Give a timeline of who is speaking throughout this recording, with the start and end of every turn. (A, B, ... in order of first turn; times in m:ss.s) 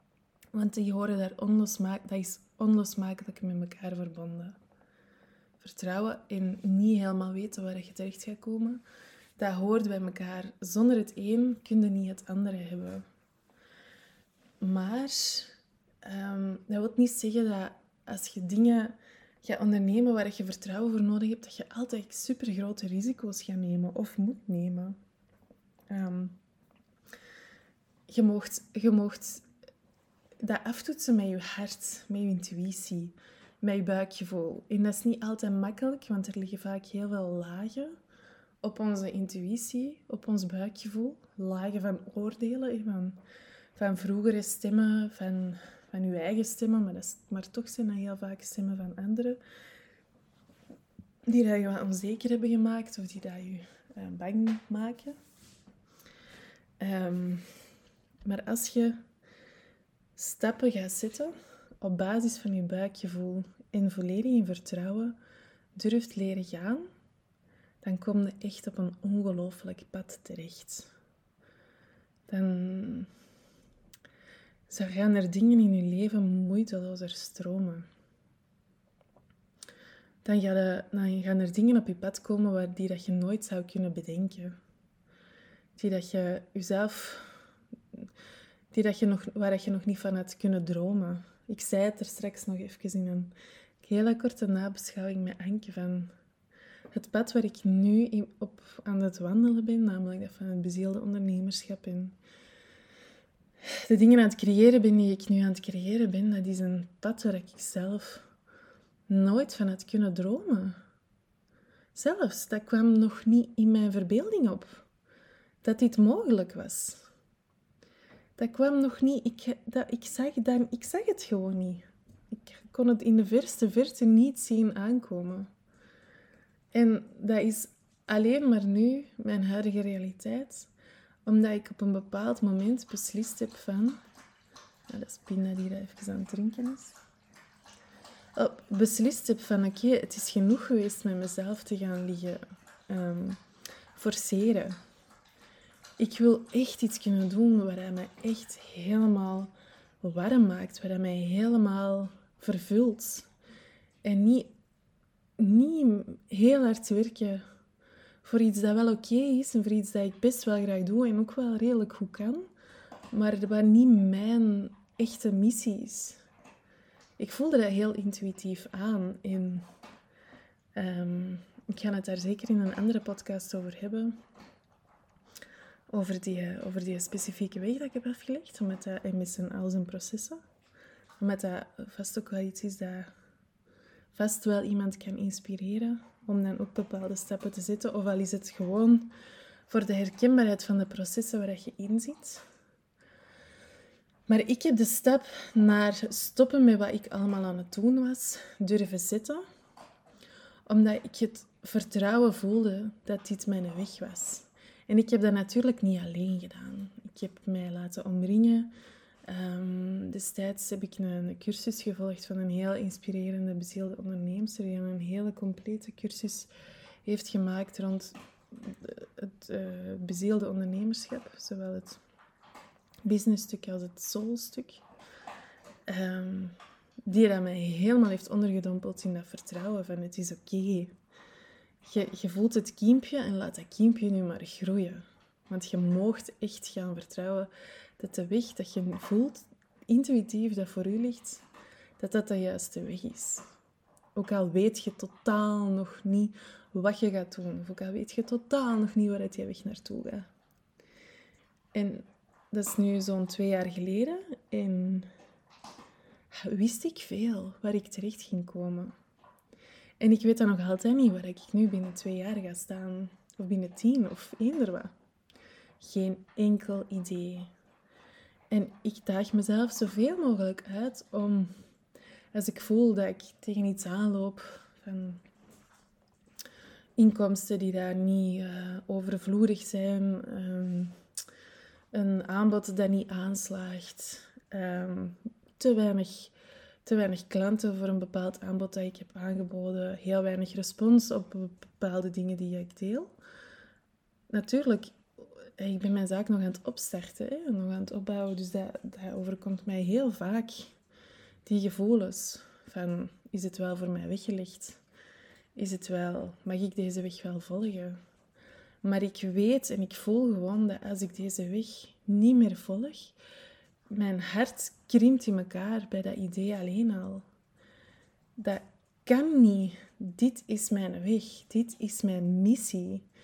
0:00.5-0:04.6 A
0:05.6-0:08.8 A
0:09.4-0:13.0 A
0:14.6-0:25.0 A
0:25.9-0:26.4 A
0:28.1-0:29.4 A
0:30.4-0:38.0 A
0:38.6-0:43.2 A
0:43.8-0:49.4 A
0:51.3-0:55.2 A
0:56.8-0:57.5 A
0:58.2-0:59.0 A
1:00.2-1:05.2 A
1:05.8-1:06.9 A
1:07.8-1:10.9 A
1:12.3-1:13.1 A
1:14.7-1:17.9 A
1:20.2-1:24.6 A
1:25.8-1:27.4 A
1:28.7-1:36.1 A
1:36.9-1:42.2 A
1:43.6-1:48.3 A
1:49.1-1:50.8 A
1:52.0-1:54.8 A
1:55.6-1:57.1 A
1:58.4-2:05.5 A
2:06.7-2:10.7 A
2:11.3-2:14.0 A
2:14.9-2:17.0 A
2:18.4-2:23.4 A
2:23.9-2:24.8 A
2:26.0-2:33.3 A
2:34.0-2:34.6 A
2:35.4-2:37.4 A
2:38.2-2:42.5 A
2:43.1-2:46.2 A
2:47.2-2:49.7 A
2:50.8-2:54.2 A
2:55.9-3:00.4 A
3:01.2-3:03.1 A
3:04.1-3:09.1 A
3:09.7-3:12.4 A
3:14.3-3:19.4 A
3:20.7-3:28.7 A
3:29.3-3:36.5 A
3:37.0-3:42.0 A
3:43.0-3:44.8 A
3:45.9-3:50.9 A
3:51.8-4:01.4 A
4:02.0-4:03.5 A
4:04.2-4:10.3 A
4:11.7-4:15.1 A
4:16.3-4:19.0 A
4:20.0-4:24.9 A
4:25.8-4:27.5 A
4:28.5-4:31.5 A
4:32.3-4:35.2 A
4:37.0-4:41.0 A
4:41.9-4:46.3 A
4:46.8-4:53.1 A
4:54.3-5:00.7 A
5:01.4-5:04.8 A
5:05.6-5:08.0 A
5:08.8-5:13.2 A
5:13.9-5:17.2 A
5:18.4-5:23.1 A